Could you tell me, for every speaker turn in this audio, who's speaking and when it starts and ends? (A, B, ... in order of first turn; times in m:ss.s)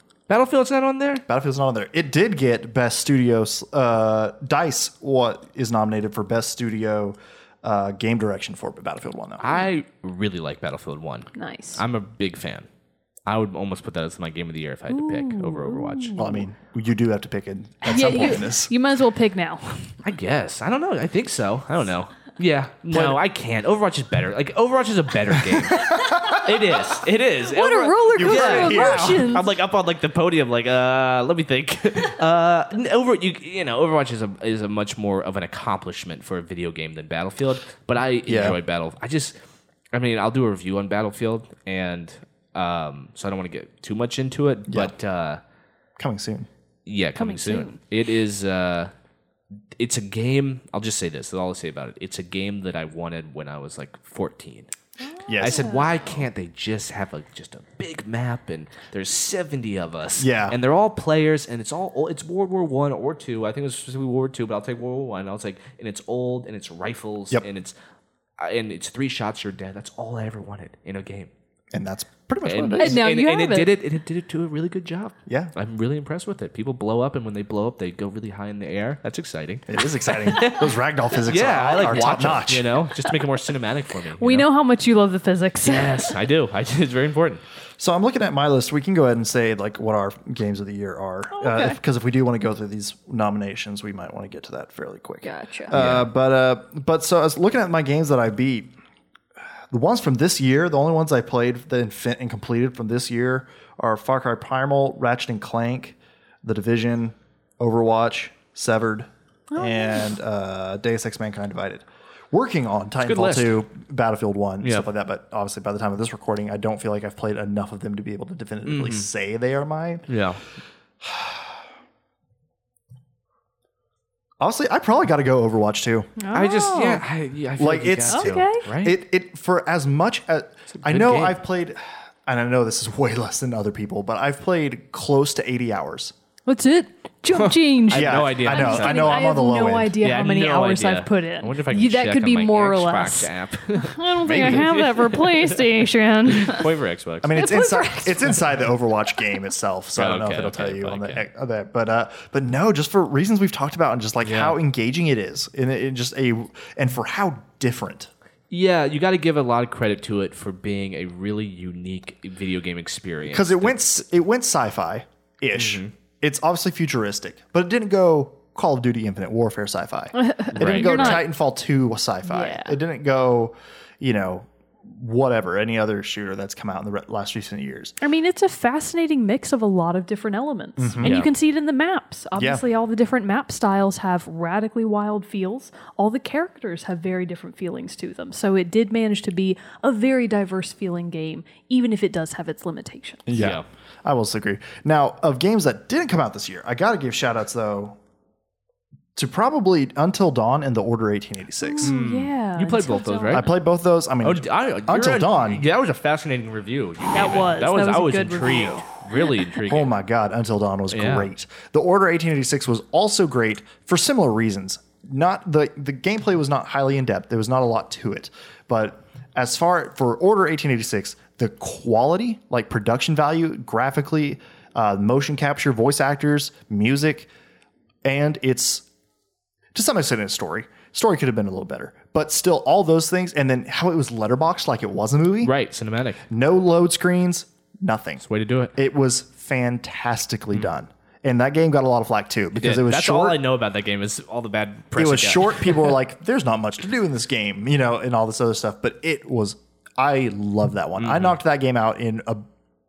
0:00.3-0:01.2 A
0:01.3-0:09.6 B
0:09.4-0:12.6 A
0:11.3-0:11.8 C
0:13.2-0:16.2 A
0:14.9-0:16.4 C
0:16.2-0:18.7 B
0:17.8-0:19.9 C
0:20.0-0:39.3 A
0:22.9-0:23.2 B
0:25.4-0:26.4 B
0:25.8-0:26.7 C
0:27.4-0:29.5 C
0:28.1-0:29.3 B
0:38.2-0:38.6 B
0:39.9-0:45.4 A
0:44.7-0:44.9 B
0:46.0-0:46.5 B
0:46.8-0:48.9 A
0:47.2-0:47.8 C
0:49.8-0:54.7 A
0:55.0-0:56.1 C
0:55.3-0:55.7 B
0:55.4-1:07.7 A
1:00.2-1:00.6 B
1:08.4-1:11.3 A
1:11.7-1:13.0 B
1:12.4-1:24.5 A
1:12.8-1:13.7 C
1:15.3-1:15.5 B
1:19.7-1:22.7 B
1:24.2-1:26.1 C
1:25.6-1:27.4 A
1:27.8-1:38.7 B
1:31.3-1:31.8 C
1:35.2-1:35.7 C
1:35.7-1:36.1 A
1:39.7-2:00.0 B
1:49.5-1:50.1 C
1:53.0-1:53.6 A
1:58.6-1:59.1 A
2:00.1-2:00.4 A
2:01.0-2:01.6 B
2:04.4-2:06.1 B
2:06.2-2:07.0 C
2:06.3-2:09.0 A
2:07.6-2:16.1 B
2:08.1-2:08.6 C
2:10.7-2:11.4 A
2:16.5-2:26.7 C
2:17.3-2:19.3 A
2:17.9-2:20.0 B
2:20.0-2:27.4 A
2:27.2-2:38.1 B
2:27.3-2:28.4 C
2:30.0-2:31.2 A
2:34.2-2:34.6 A
2:38.5-2:43.9 A
2:43.3-2:58.0 B
2:45.6-2:45.9 A
2:50.1-2:51.2 C
2:50.6-2:51.2 A
2:52.3-2:52.8 C
2:58.0-3:13.2 C
3:00.8-3:01.2 B
3:01.0-3:01.3 A
3:02.4-3:02.6 B
3:13.3-3:18.0 B
3:13.3-3:13.6 A
3:19.2-3:21.9 B
3:21.6-3:23.5 C
3:21.8-3:23.5 A
3:23.3-3:25.6 B
3:24.2-3:29.9 A
3:27.1-3:29.3 C
3:29.6-3:47.3 B
3:30.9-3:31.3 A
3:48.0-3:48.8 B
3:49.7-3:55.5 B
3:55.4-3:56.2 A
3:56.3-3:58.2 B
3:58.2-3:58.7 A
3:58.8-4:03.4 B
4:02.6-4:05.9 A
4:05.0-4:12.4 B
4:11.0-4:11.4 A